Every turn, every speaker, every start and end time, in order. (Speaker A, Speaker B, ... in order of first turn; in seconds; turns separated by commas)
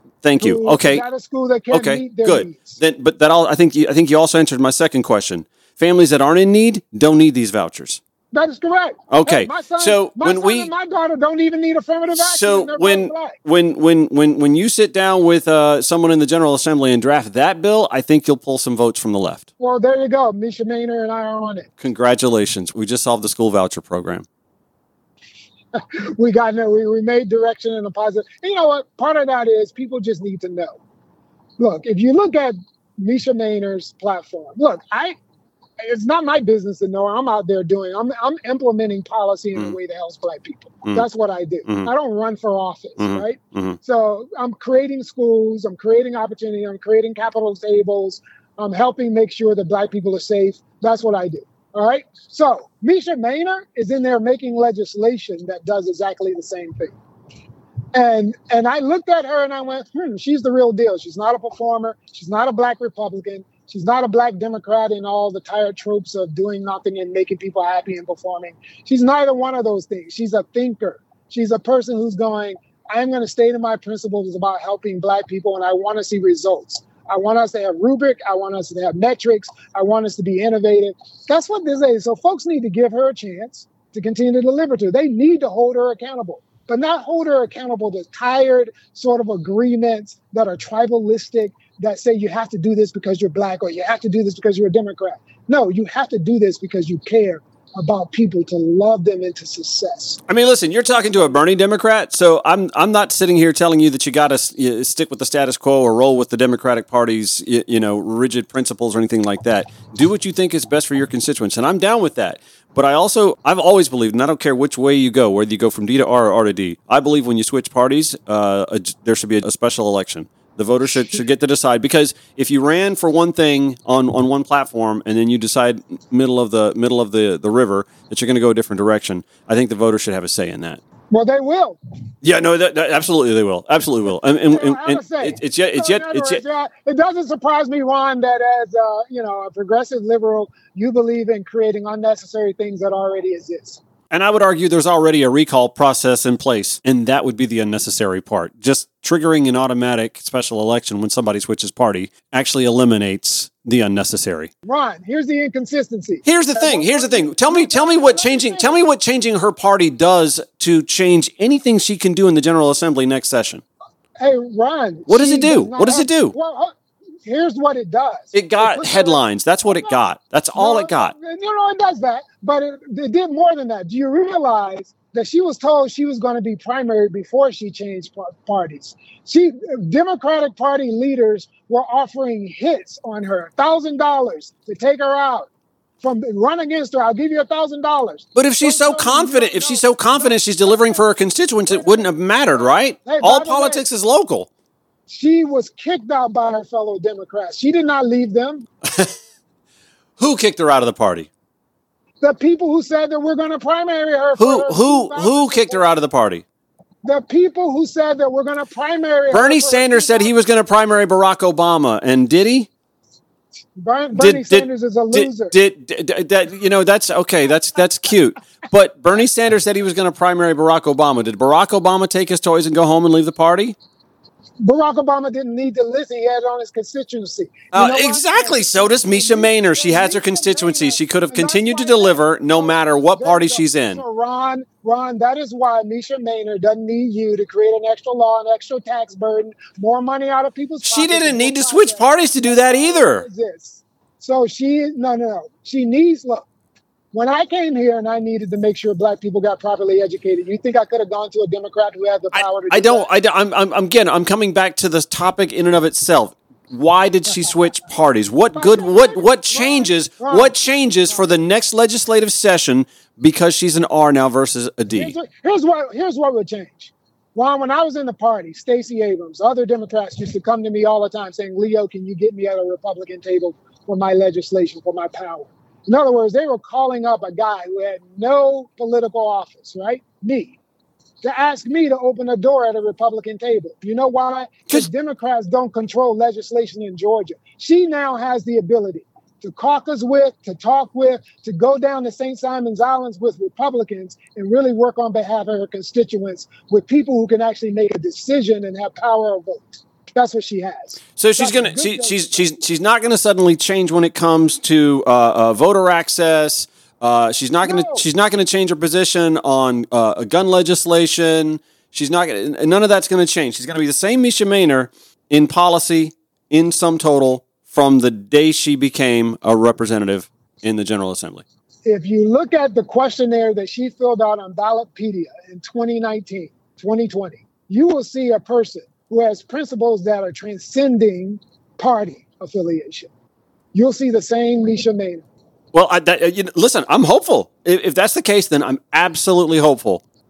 Speaker A: 0.2-1.1, Speaker B: 0.4-2.8, Speaker A: 1.7-8.0, Speaker B: 8.3-13.4, Speaker A: 9.1-10.7, Speaker A: 12.1-19.4, Speaker B: 19.6-21.7, Speaker A: 21.8-24.2, Speaker B: 25.7-30.8, Speaker B: 31.6-35.1, Speaker B: 35.8-57.0, Speaker A: 43.0-43.8, Speaker B: 57.9-100.2, Speaker A: 100.3-130.8, Speaker B: 131.1-131.8, Speaker A: 132.2-136.4, Speaker B: 134.5-143.8, Speaker A: 144.1-154.5, Speaker B: 154.6-158.8, Speaker A: 156.2-163.6, Speaker B: 164.2-170.0, Speaker A: 165.1-166.3, Speaker A: 168.3-171.1, Speaker B: 170.5-185.5, Speaker B: 186.0-191.0, Speaker A: 188.3-194.5, Speaker B: 191.7-193.8, Speaker B: 195.1-198.7, Speaker A: 198.8-199.1, Speaker A: 200.2-201.3, Speaker B: 202.2-205.9, Speaker A: 204.4-206.4, Speaker B: 207.0-210.4, Speaker A: 209.3-212.7, Speaker B: 213.8-215.5, Speaker A: 214.2-223.8, Speaker B: 224.6-246.5, Speaker A: 227.7-234.0, Speaker A: 240.8-243.2, Speaker B: 247.1-253.1, Speaker A: 252.3-265.1, Speaker B: 258.5-260.5, Speaker B: 264.9-280.6, Speaker B: 281.2-302.4, Speaker A: 301.2-321.4, Speaker B: 307.6-308.1, Speaker B: 321.9-333.1, Speaker B: 333.7-335.2, Speaker A: 335.7-340.0